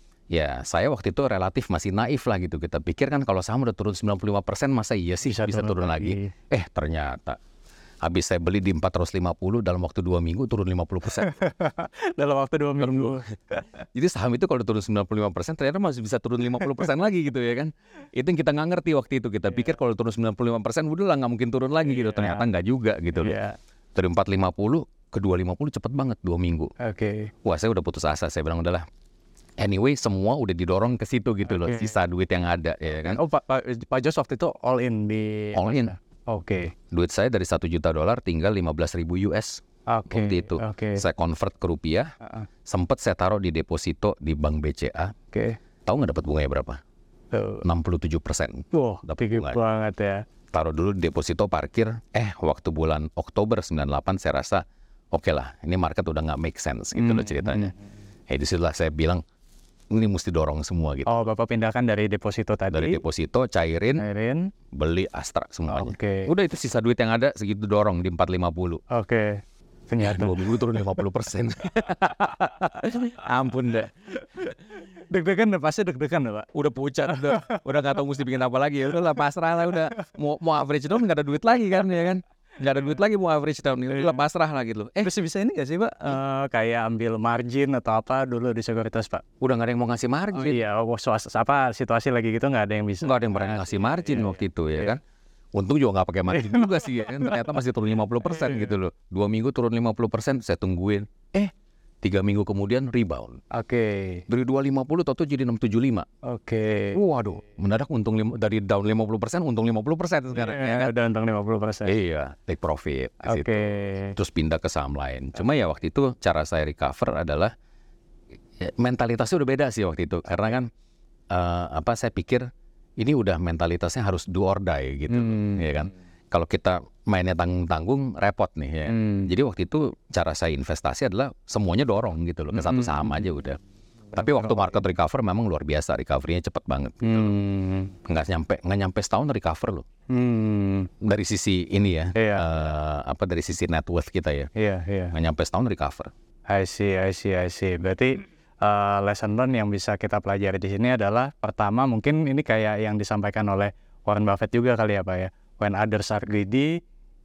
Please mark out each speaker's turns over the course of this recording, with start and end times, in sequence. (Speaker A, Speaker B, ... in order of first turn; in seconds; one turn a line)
Speaker A: 0.3-7.4
Speaker B: 5.2-6.3
Speaker A: 8.0-11.3
Speaker B: 11.2-13.8
Speaker A: 13.9-23.4
Speaker B: 21.9-22.4
Speaker B: 23.2-23.6
Speaker A: 23.9-26.7
Speaker B: 26.8-27.3
Speaker A: 27.4-28.9
Speaker A: 29.6-33.2
Speaker B: 31.5-31.9
Speaker B: 33.1-36.7
Speaker A: 35.5-35.9
Speaker A: 36.9-42.1
Speaker B: 39.9-41.0
Speaker A: 42.7-45.1
Speaker B: 45.3-45.6
Speaker A: 45.9-46.8
Speaker B: 47.3-47.6
Speaker A: 47.6-49.6
Speaker B: 48.7-50.2
Speaker A: 50.5-57.7
Speaker B: 57.0-57.8
Speaker A: 58.3-59.2
Speaker A: 59.9-61.1
Speaker B: 61.1-63.0
Speaker A: 62.7-64.1
Speaker B: 64.0-64.5
Speaker A: 64.7-68.8
Speaker B: 65.7-66.3
Speaker B: 68.9-70.8
Speaker A: 70.0-73.9
Speaker B: 72.0-73.0
Speaker B: 74.3-76.5
Speaker A: 76.5-85.1
Speaker B: 77.1-77.6
Speaker B: 85.0-89.2
Speaker A: 89.4-90.6
Speaker B: 90.3-94.9
Speaker A: 93.0-95.0
Speaker A: 95.5-103.4
Speaker B: 96.3-97.4
Speaker B: 103.5-104.2
Speaker A: 104.3-106.1
Speaker B: 106.2-107.0
Speaker A: 106.9-110.9
Speaker B: 110.3-111.9
Speaker A: 111.8-117.5
Speaker B: 113.2-114.2
Speaker A: 118.6-120.7
Speaker A: 121.3-122.5
Speaker A: 123.0-133.6
Speaker B: 125.1-125.6
Speaker B: 128.9-129.3
Speaker B: 132.5-133.1
Speaker B: 134.1-134.7
Speaker A: 134.1-137.3
Speaker B: 137.0-137.9
Speaker A: 138.0-139.9
Speaker B: 140.1-140.9
Speaker A: 141.0-144.5
Speaker B: 142.2-142.4
Speaker B: 144.6-145.2
Speaker A: 145.1-146.1
Speaker B: 146.5-156.8